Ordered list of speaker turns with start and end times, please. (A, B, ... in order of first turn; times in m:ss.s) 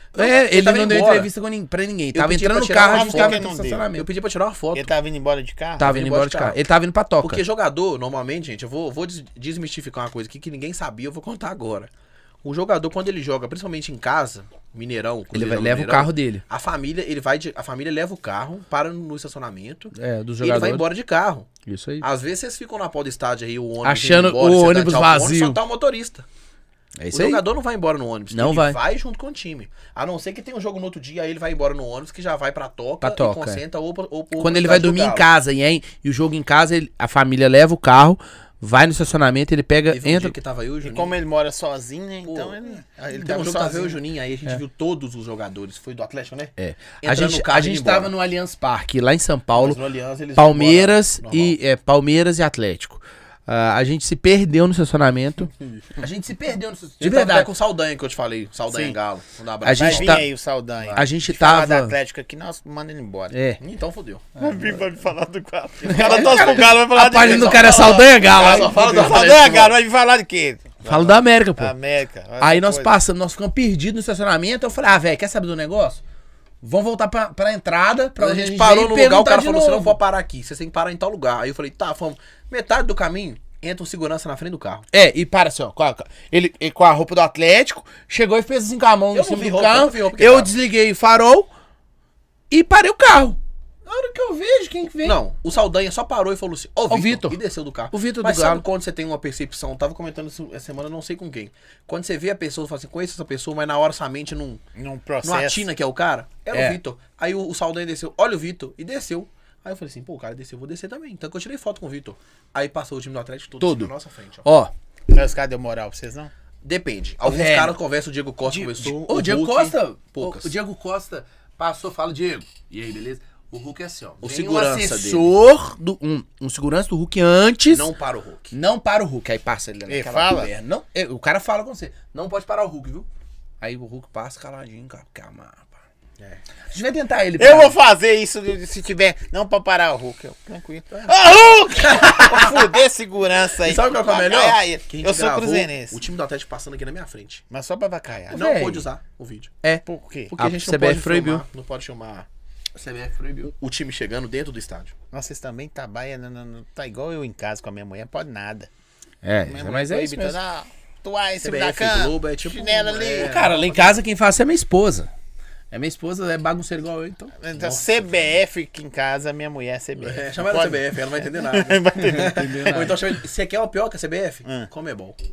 0:00.1-0:01.3 A
0:00.1-0:04.1 B
0:02.1-0:03.4 A
0:02.9-0:03.9 C
0:03.9-0:04.9 A
0:04.7-0:05.9 C
0:05.8-0:07.4 B
0:05.8-0:06.6 A
0:07.2-0:11.9 A
0:12.4-0:21.5 A
0:15.3-0:16.4 B
0:19.9-0:20.9 B
0:21.6-0:22.0 B
0:22.0-0:26.2 A
0:23.8-0:25.6 B
0:27.0-0:27.4 B
0:27.1-0:35.3 A
0:28.3-0:28.8 B
0:33.0-0:33.6 B
0:34.4-0:40.3 B
0:39.9-0:41.2 A
0:40.8-0:44.0 C
0:42.2-0:42.6 A
0:43.1-0:48.1 A
0:46.6-0:49.8 B
0:49.5-0:51.6 A
0:50.4-0:57.5 B
0:57.0-1:00.3 A
0:58.7-0:59.0 B
0:59.6-1:00.3 B
0:59.8-1:03.4 C
1:00.8-1:01.0 A
1:00.9-1:01.9 B
1:03.3-1:03.6 B
1:03.6-1:04.2 A
1:04.4-1:13.0 C
1:05.8-1:09.8 A
1:05.9-1:08.8 B
1:10.8-1:11.7 B
1:12.4-1:16.0 B
1:16.6-1:20.0 B
1:18.2-1:24.9 A
1:24.9-1:31.5 B
1:29.1-1:30.6 A
1:32.5-1:35.2 B
1:35.0-1:44.6 A
1:36.9-1:37.4 B
1:37.9-1:38.6 B
1:44.7-1:45.7 C
1:45.2-1:54.4 A
1:46.5-1:46.8 B
1:53.6-1:53.9 B
1:54.4-1:54.7 B
1:55.1-1:56.3 C
1:56.6-2:00.5 A
1:57.2-1:57.8 B
1:58.4-2:07.9 B
2:04.2-2:05.3 A
2:07.7-2:08.5 A
2:08.5-2:13.1 B
2:09.9-2:10.5 C
2:13.6-2:15.8 B
2:16.7-2:17.8 B
2:17.4-2:26.0 C
2:20.9-2:22.8 A
2:23.6-2:27.4 A
2:27.5-2:28.4 C
2:28.3-2:29.6 A
2:28.3-2:28.9 B
2:29.9-2:30.3 C
2:30.3-2:32.3 A
2:30.3-2:31.4 B
2:32.8-2:33.5 B
2:33.5-2:34.9 A
2:35.1-2:38.7 C
2:39.2-2:40.4 B
2:39.4-2:43.5 C
2:41.4-2:44.0 A
2:43.2-2:45.1 B
2:45.7-2:47.3 B
2:47.4-2:52.9 C
2:47.5-2:48.3 A
2:50.0-2:55.2 A
2:51.9-2:53.0 B